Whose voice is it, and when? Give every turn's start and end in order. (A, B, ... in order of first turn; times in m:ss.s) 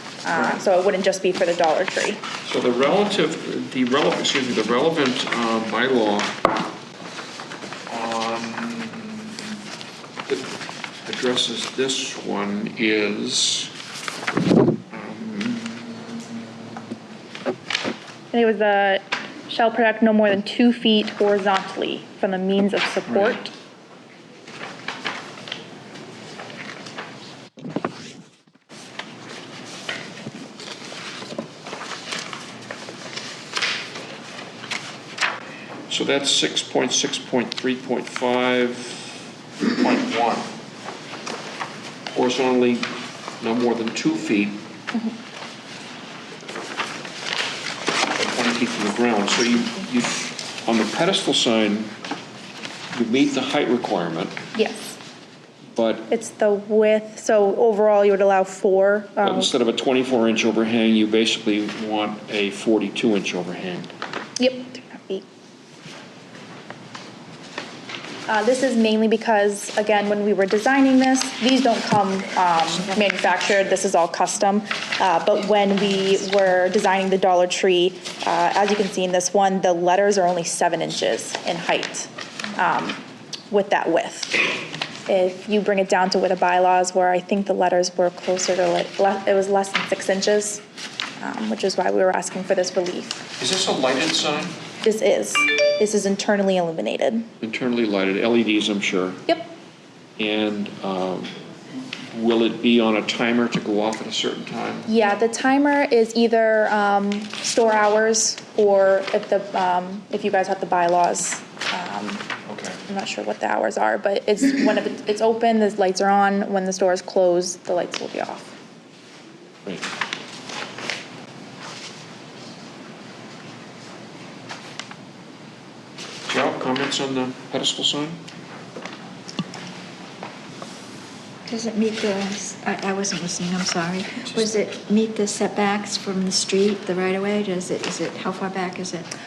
0:00.2-0:02.2 A
0:02.4-0:06.4 B
0:07.9-0:09.3 B
0:11.0-0:13.7 B
0:14.9-0:16.2 B
0:18.3-0:23.5 A
0:23.1-0:23.4 B
0:35.9-0:40.5 B
0:42.1-0:42.9 B
0:43.4-0:44.6 B
0:48.1-0:51.9 B
0:52.9-0:54.4 B
0:54.5-0:55.0 A
0:55.7-0:56.1 B
0:56.1-0:59.5 A
0:59.2-1:03.9 B
1:04.4-1:05.2 A
1:08.3-1:24.4 A
1:25.1-1:30.6 A
1:31.2-1:33.2 A
1:33.4-1:34.6 B
1:34.8-1:37.3 A
1:37.4-1:39.2 B
1:40.2-1:41.3 B
1:42.1-1:44.9 B
1:44.9-1:52.2 A
1:52.5-1:52.8 B
1:52.9-1:58.5 A
2:06.3-2:08.2 B
2:11.4-2:19.1 C
2:14.1-2:14.7 B